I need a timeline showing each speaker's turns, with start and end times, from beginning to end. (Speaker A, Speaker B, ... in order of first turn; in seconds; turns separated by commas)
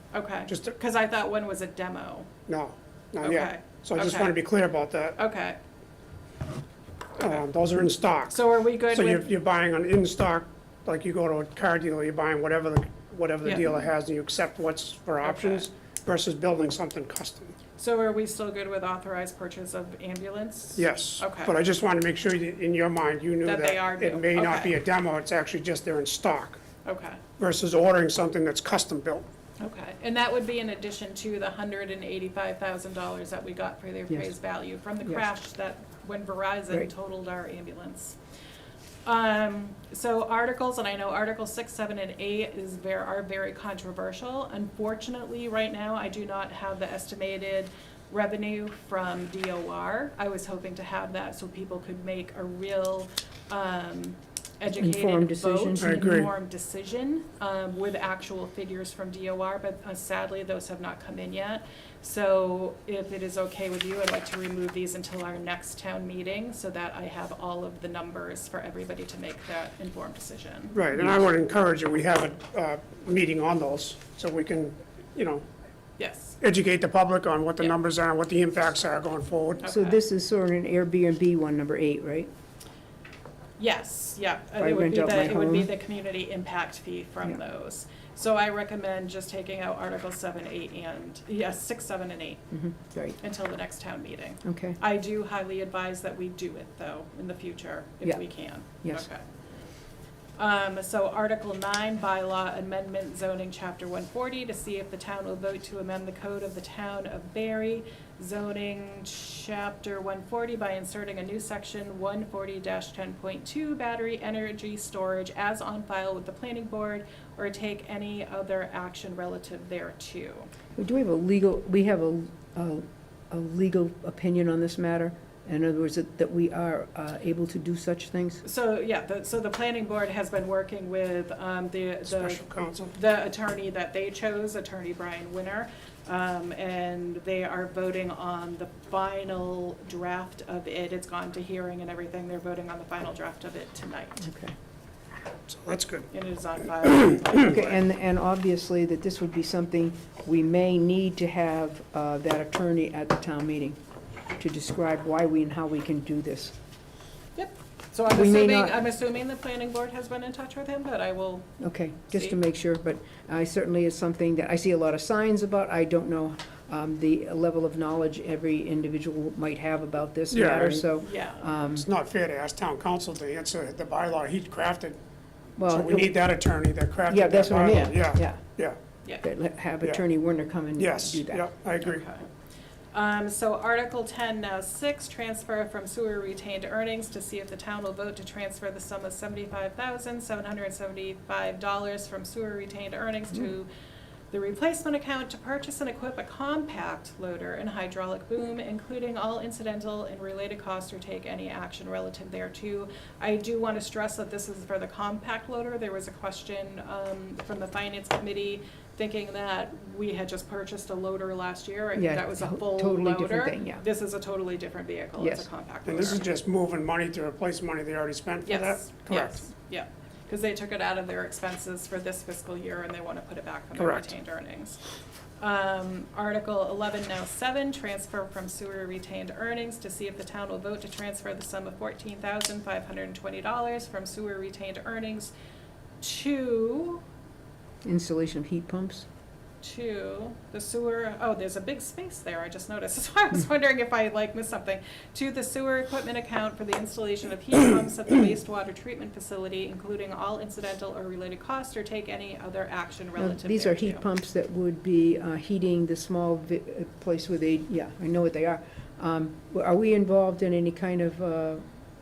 Speaker A: 0.1-2.3, Speaker B: 0.5-0.7, Speaker B: 2.5-5.2, Speaker A: 3.2-4.4, Speaker A: 5.2-5.6, Speaker B: 7.2-8.4, Speaker A: 8.3-9.3, Speaker B: 8.9-17.6, Speaker A: 13.4-13.8, Speaker A: 15.2-15.7, Speaker A: 17.8-21.5, Speaker B: 20.8-26.6, Speaker A: 23.4-24.7, Speaker A: 26.8-27.2, Speaker B: 27.4-29.2, Speaker A: 29.6-38.2, Speaker A: 39.0-70.8, Speaker C: 54.7-56.0, Speaker B: 55.8-56.3, Speaker B: 70.7-75.5, Speaker A: 76.0-76.4, Speaker B: 76.4-79.7, Speaker A: 79.6-80.0, Speaker C: 79.7-82.3, Speaker A: 83.6-92.4, Speaker C: 84.6-85.7, Speaker C: 92.5-93.2, Speaker A: 93.2-99.2, Speaker C: 94.4-94.8, Speaker A: 100.4-120.5, Speaker C: 120.8-128.4, Speaker A: 128.4-144.3, Speaker B: 132.1-132.9, Speaker C: 144.2-144.5, Speaker B: 145.5-146.1, Speaker A: 146.1-147.8, Speaker C: 147.4-153.8, Speaker C: 154.4-156.6, Speaker A: 157.4-161.5, Speaker C: 158.1-158.8, Speaker C: 161.6-171.9, Speaker B: 170.3-170.9, Speaker A: 171.0-171.5, Speaker B: 171.6-175.0, Speaker C: 175.6-176.2, Speaker B: 175.7-178.8, Speaker C: 177.1-178.5, Speaker C: 179.2-181.5, Speaker B: 180.8-182.1, Speaker A: 181.8-182.3, Speaker A: 182.9-193.7, Speaker A: 194.3-216.2, Speaker C: 212.0-213.9, Speaker C: 215.2-215.5, Speaker B: 215.9-219.5, Speaker A: 218.5-224.8, Speaker B: 223.8-224.1, Speaker A: 225.4-235.3, Speaker A: 236.0-237.0, Speaker C: 237.8-239.1, Speaker A: 239.6-254.0, Speaker C: 253.2-261.6